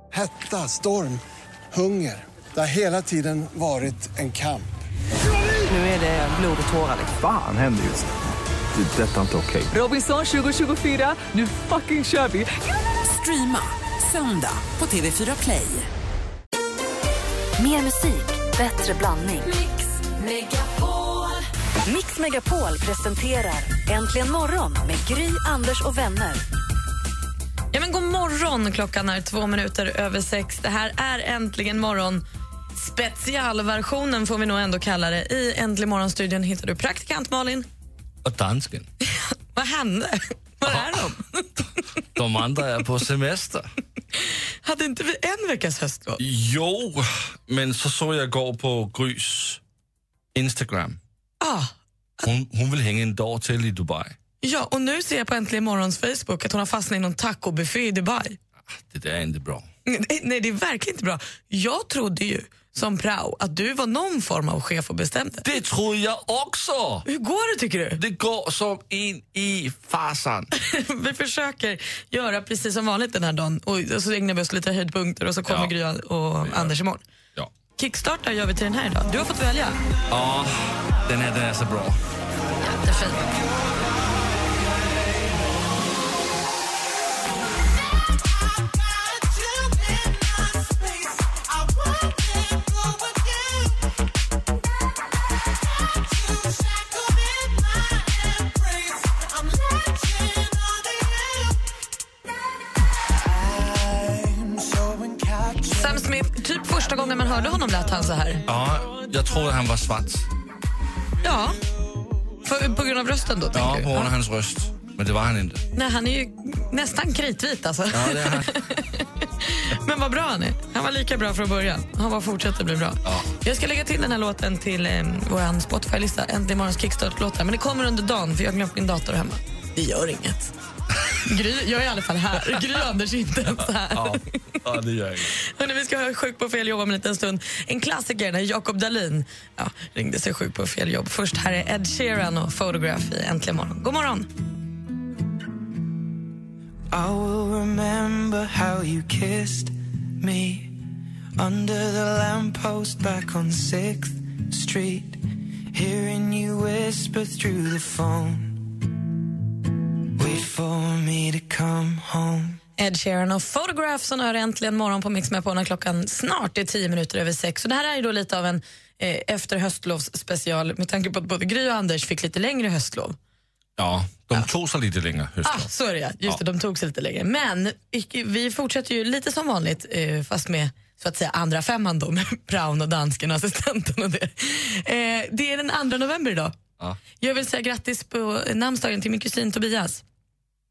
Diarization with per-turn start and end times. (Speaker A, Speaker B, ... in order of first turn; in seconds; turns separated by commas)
Speaker A: 0.1-4.7, Speaker B: 7.0-8.1, Speaker B: 8.7-9.7, Speaker C: 9.7-15.9, Speaker D: 17.6-19.5, Speaker D: 21.9-26.4, Speaker E: 27.7-32.2, Speaker E: 32.8-37.7, Speaker F: 38.2-38.9, Speaker E: 39.5-41.5, Speaker F: 40.7-41.1, Speaker F: 42.2-43.7, Speaker E: 44.2-46.2, Speaker F: 46.2-49.6, Speaker F: 50.3-51.0, Speaker E: 51.4-51.7, Speaker F: 52.2-54.2, Speaker E: 54.4-58.4, Speaker F: 58.7-59.7, Speaker E: 59.9-65.5, Speaker F: 65.4-67.1, Speaker E: 67.1-68.0, Speaker F: 68.0-70.5, Speaker E: 70.6-77.0, Speaker F: 75.5-75.7, Speaker F: 76.4-76.7, Speaker E: 77.8-79.8, Speaker F: 80.1-82.0, Speaker E: 82.6-83.4, Speaker E: 105.6-108.4, Speaker F: 108.5-110.3, Speaker E: 111.2-111.6, Speaker E: 112.4-114.1, Speaker F: 113.5-115.6, Speaker E: 115.8-130.5, Speaker F: 117.9-118.5, Speaker E: 131.2-134.4, Speaker F: 133.9-135.4, Speaker E: 135.5-144.3, Speaker G: 146.9-150.8, Speaker G: 151.4-158.7, Speaker G: 160.2-162.6, Speaker E: 162.8-173.2, Speaker F: 173.8-175.7, Speaker E: 175.4-186.6, Speaker E: 187.2-190.0